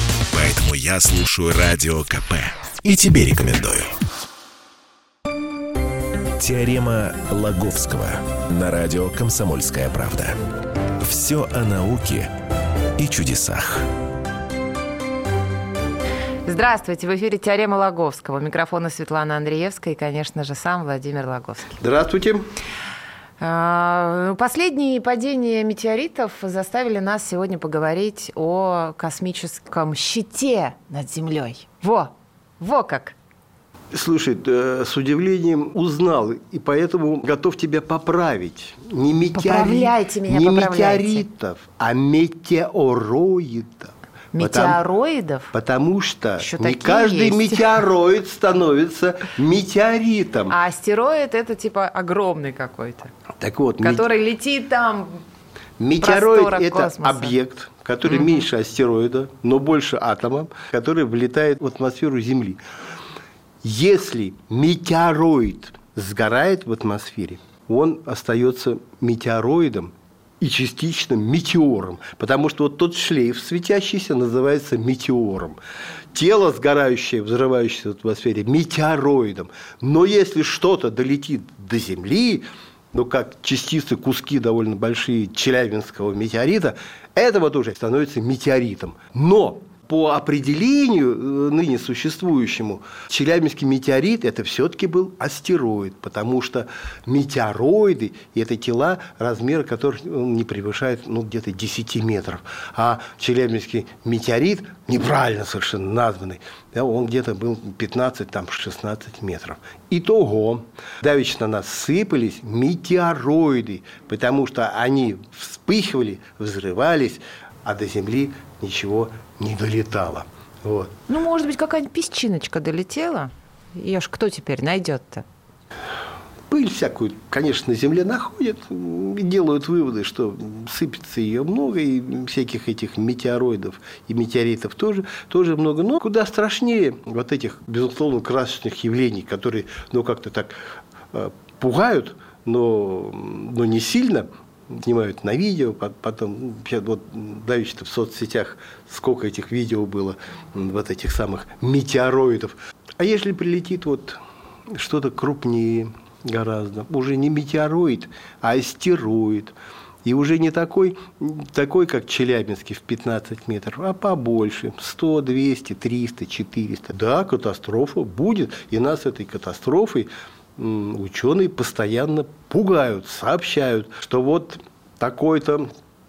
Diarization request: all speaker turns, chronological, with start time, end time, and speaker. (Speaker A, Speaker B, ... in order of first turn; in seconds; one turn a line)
Speaker A: 0.3-3.9
Speaker A: 6.4-10.4
Speaker A: 11.0-12.3
Speaker A: 13.0-13.9
Speaker B: 16.4-21.8
Speaker C: 21.8-22.4
Speaker B: 23.4-33.1
Speaker C: 33.9-44.8
Speaker B: 39.3-41.2
Speaker B: 44.3-45.5
Speaker C: 45.5-50.6
Speaker B: 46.4-47.8
Speaker B: 50.5-53.1
Speaker C: 53.4-54.1
Speaker B: 53.8-55.2
Speaker C: 55.8-62.6
Speaker B: 56.0-57.4
Speaker B: 58.1-58.4
Speaker C: 63.6-75.6
Speaker C: 76.1-120.9
Speaker B: 121.1-125.2
Speaker C: 126.5-140.6
Speaker C: 141.1-154.2
Speaker C: 154.7-175.7